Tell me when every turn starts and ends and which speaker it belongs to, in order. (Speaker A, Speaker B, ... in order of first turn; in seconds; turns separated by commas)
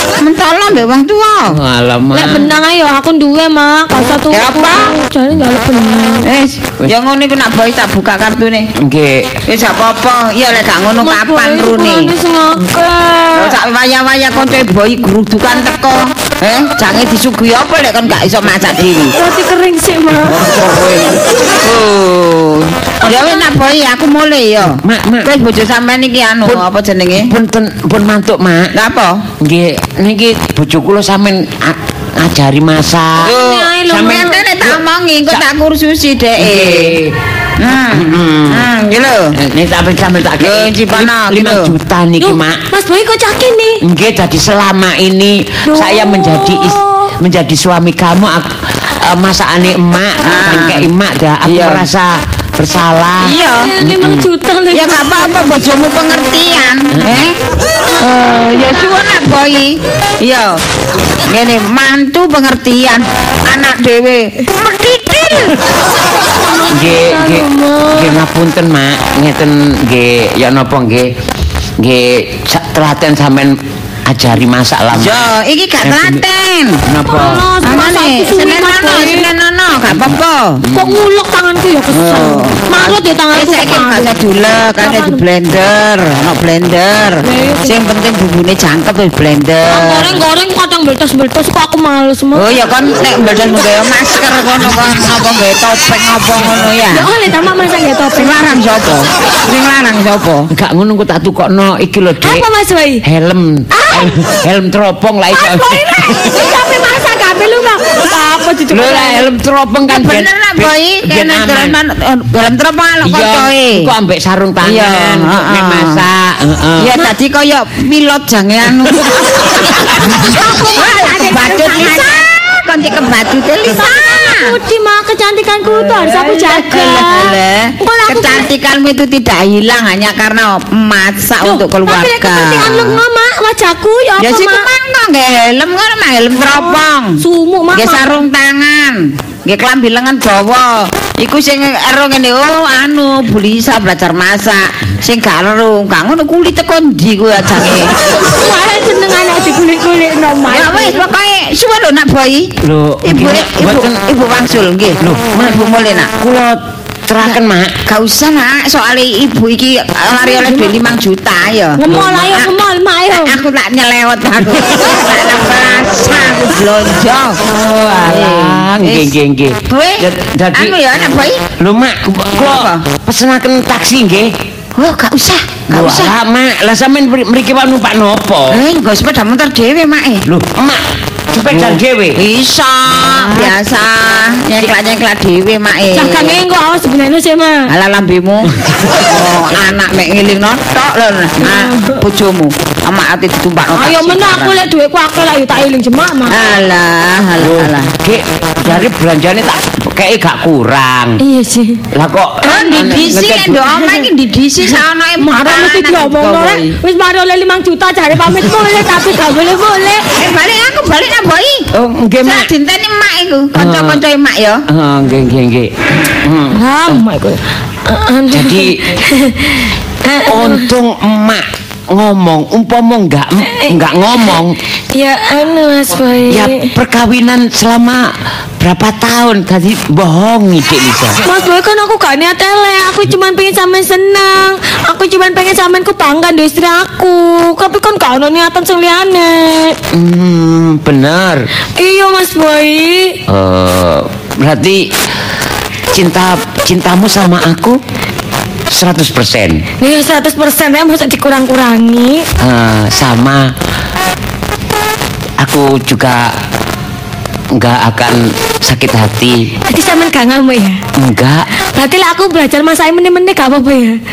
Speaker A: 0.2-1.6, Speaker B: 1.5-2.5, Speaker C: 2.1-6.3, Speaker A: 4.3-5.0, Speaker A: 6.2-8.7, Speaker B: 8.8-9.4, Speaker A: 9.5-12.1, Speaker C: 11.0-13.6, Speaker A: 13.3-19.1, Speaker C: 19.1-20.4, Speaker A: 20.3-27.3, Speaker C: 23.1-23.3, Speaker B: 24.8-25.3, Speaker B: 27.2-28.7, Speaker A: 28.7-29.2, Speaker B: 29.4-33.3, Speaker A: 33.2-37.0, Speaker C: 33.2-34.4, Speaker B: 33.9-35.4, Speaker B: 36.4-37.1, Speaker A: 37.6-39.3, Speaker B: 37.9-38.7, Speaker B: 39.4-42.6, Speaker A: 40.4-41.8, Speaker C: 42.2-43.8, Speaker B: 43.8-48.5, Speaker C: 45.6-47.1, Speaker B: 49.0-54.3, Speaker A: 50.2-50.9, Speaker A: 51.4-51.9, Speaker A: 53.2-53.7, Speaker C: 53.5-55.3, Speaker A: 54.7-57.4, Speaker B: 56.9-57.2, Speaker A: 58.0-60.6, Speaker A: 61.3-65.6, Speaker C: 66.4-68.2, Speaker B: 66.7-71.1, Speaker B: 71.8-75.2, Speaker A: 74.9-76.8, Speaker B: 75.8-76.2, Speaker B: 76.9-77.5, Speaker C: 77.0-79.3, Speaker A: 77.6-80.6, Speaker B: 80.6-81.0, Speaker C: 80.7-84.1, Speaker A: 81.9-90.2, Speaker C: 84.8-85.2, Speaker C: 87.2-87.8, Speaker C: 89.7-92.5, Speaker A: 92.4-97.1, Speaker C: 96.9-98.5, Speaker A: 98.2-100.5, Speaker B: 100.5-102.5, Speaker C: 102.2-103.0, Speaker B: 103.0-106.4, Speaker C: 103.7-104.2, Speaker C: 105.3-109.3, Speaker B: 108.7-111.8, Speaker A: 109.9-113.9, Speaker B: 113.0-116.9, Speaker A: 114.6-116.0, Speaker A: 116.8-119.5, Speaker C: 120.2-122.1, Speaker A: 120.3-124.5, Speaker C: 123.7-128.5, Speaker A: 125.7-133.0, Speaker C: 131.4-134.7, Speaker A: 134.2-137.2, Speaker C: 136.4-138.2, Speaker A: 137.7-147.9, Speaker C: 148.2-151.1, Speaker A: 150.5-156.1, Speaker B: 152.6-154.0, Speaker B: 155.0-155.6, Speaker B: 156.2-157.8, Speaker A: 157.2-162.6, Speaker C: 160.3-160.7, Speaker C: 161.8-163.4, Speaker A: 163.1-167.4, Speaker B: 167.5-170.8, Speaker A: 168.0-169.2, Speaker A: 169.7-171.5, Speaker B: 171.6-174.3, Speaker A: 172.4-172.8, Speaker A: 174.8-176.2, Speaker B: 175.7-178.6, Speaker A: 178.5-180.2, Speaker B: 180.3-182.2, Speaker A: 181.5-186.4, Speaker B: 183.1-183.5, Speaker C: 185.9-187.7, Speaker A: 187.7-194.6, Speaker B: 188.5-188.9, Speaker C: 191.4-192.0, Speaker C: 193.8-196.4, Speaker A: 196.3-197.9, Speaker B: 197.4-201.2, Speaker C: 201.2-201.8, Speaker B: 201.9-203.7, Speaker C: 202.4-203.2, Speaker A: 202.5-206.8, Speaker C: 203.7-204.0, Speaker C: 205.2-210.1, Speaker A: 210.2-211.7, Speaker B: 211.7-212.5, Speaker A: 212.2-214.6, Speaker B: 213.6-214.0, Speaker B: 214.7-217.0, Speaker C: 216.5-220.7, Speaker B: 218.3-218.9, Speaker B: 220.2-224.6, Speaker C: 223.4-223.8, Speaker C: 224.9-226.7, Speaker B: 226.3-231.2, Speaker C: 231.2-239.8, Speaker B: 239.9-241.5, Speaker C: 241.8-243.2, Speaker B: 243.3-244.9, Speaker B: 245.9-247.8, Speaker B: 248.7-249.6, Speaker C: 249.8-252.3, Speaker B: 252.4-253.5, Speaker B: 255.4-256.3, Speaker B: 257.5-259.4, Speaker C: 259.7-260.8, Speaker B: 261.0-261.5, Speaker C: 261.7-264.0